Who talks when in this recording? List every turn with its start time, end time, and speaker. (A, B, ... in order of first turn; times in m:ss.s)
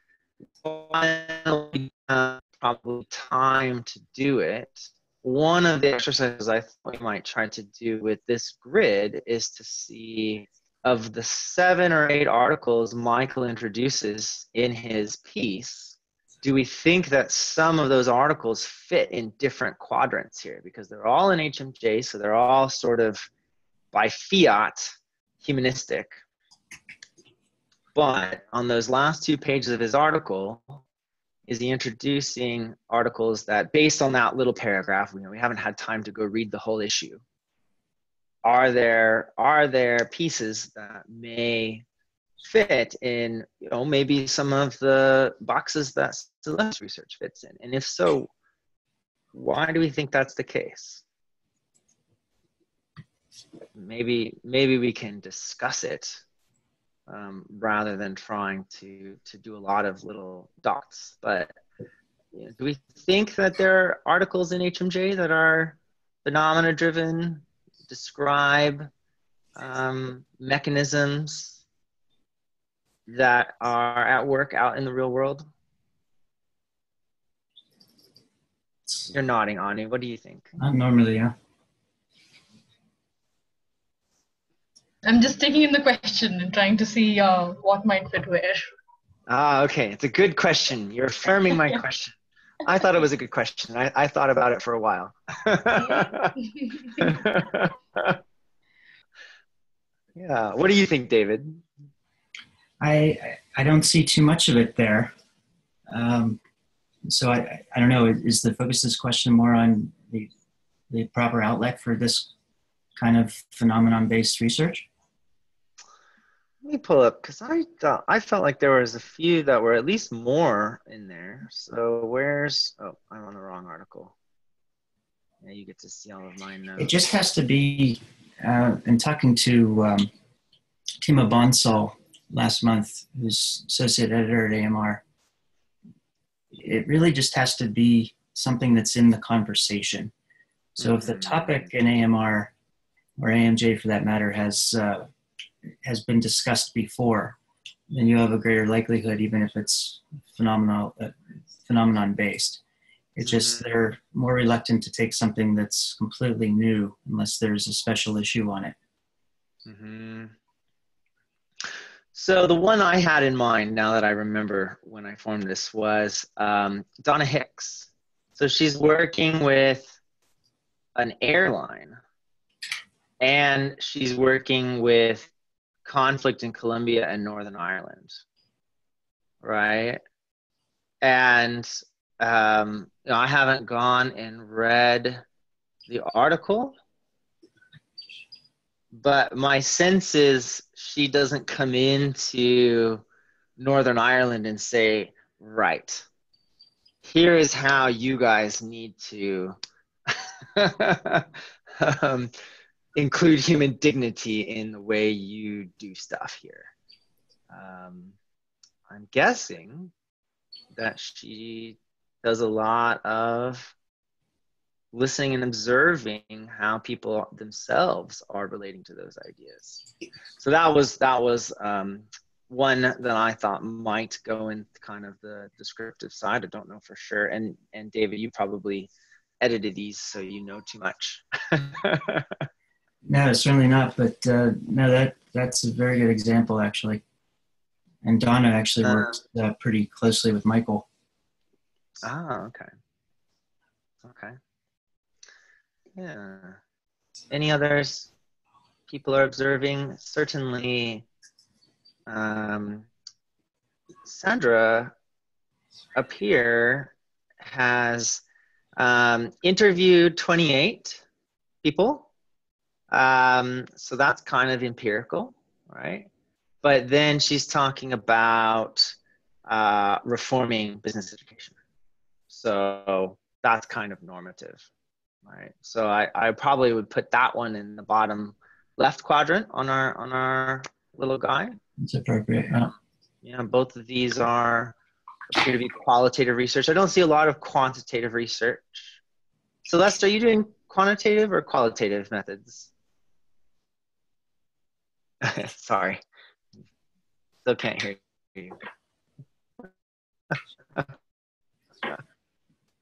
0:00.6-0:23.3 A
0:23.9-0:26.2 A
0:27.9-0:30.8 A
0:31.5-0:37.2 A
0:38.4-0:41.8 A
0:42.4-0:48.3 A
0:49.3-0:51.0 A
0:53.7-0:56.2 A
0:57.1-1:01.5 A
1:02.3-1:08.9 A
1:09.6-1:11.6 A
1:13.1-1:15.5 A
1:19.1-1:20.6 A
1:20.6-1:21.3 B
1:25.0-1:28.7 C
1:29.3-1:38.2 A
1:40.2-1:41.6 A
1:42.8-1:45.1 B
1:45.9-1:46.4 B
1:47.0-1:50.3 B
1:50.9-1:52.3 B
1:53.0-1:54.9 B
1:56.6-2:04.1 A
2:05.4-2:07.0 A
2:06.8-2:10.1 B
2:11.0-2:15.0 B
2:16.5-2:20.1 B
2:20.8-2:21.7 A
2:20.8-2:22.5 B
2:23.2-2:25.1 B
2:25.8-2:27.4 B
2:27.9-2:32.6 B
2:33.2-2:38.7 B
2:33.2-2:33.6 A
2:39.6-2:40.3 A
2:42.1-2:50.0 A
2:51.0-2:52.0 A
2:53.2-2:55.3 A
2:55.8-2:58.2 A
2:59.4-3:00.0 A
3:01.0-3:05.2 A
3:05.9-3:06.7 A
3:08.9-3:13.0 A
3:13.6-3:16.0 A
3:17.0-3:19.6 A
3:20.1-3:22.3 A
3:23.0-3:26.7 A
3:27.5-3:28.2 A
3:28.9-3:29.9 A
3:30.7-3:33.7 A
3:34.9-3:39.8 A
3:40.4-3:48.9 A
3:49.4-3:52.4 A
3:53.0-3:57.0 B
3:58.0-4:00.8 B
3:58.8-3:59.2 A
4:02.0-4:02.7 A
4:04.0-4:04.4 A
4:06.0-4:06.6 A
4:07.3-4:08.1 A
4:08.9-4:11.0 A
4:12.1-4:12.9 A
4:14.0-4:14.9 A
4:15.9-4:18.2 A
4:18.8-4:21.0 A
4:21.6-4:22.1 A
4:22.9-4:26.1 A
4:26.6-4:29.0 A
4:29.5-4:31.5 A
4:32.3-4:34.7 A
4:35.2-4:41.6 A
4:41.8-4:42.7 B
4:43.2-4:44.7 A
4:45.3-4:49.0 A
4:49.6-4:52.7 A
4:55.2-4:56.0 A
4:57.4-4:58.6 A
5:00.3-5:00.9 A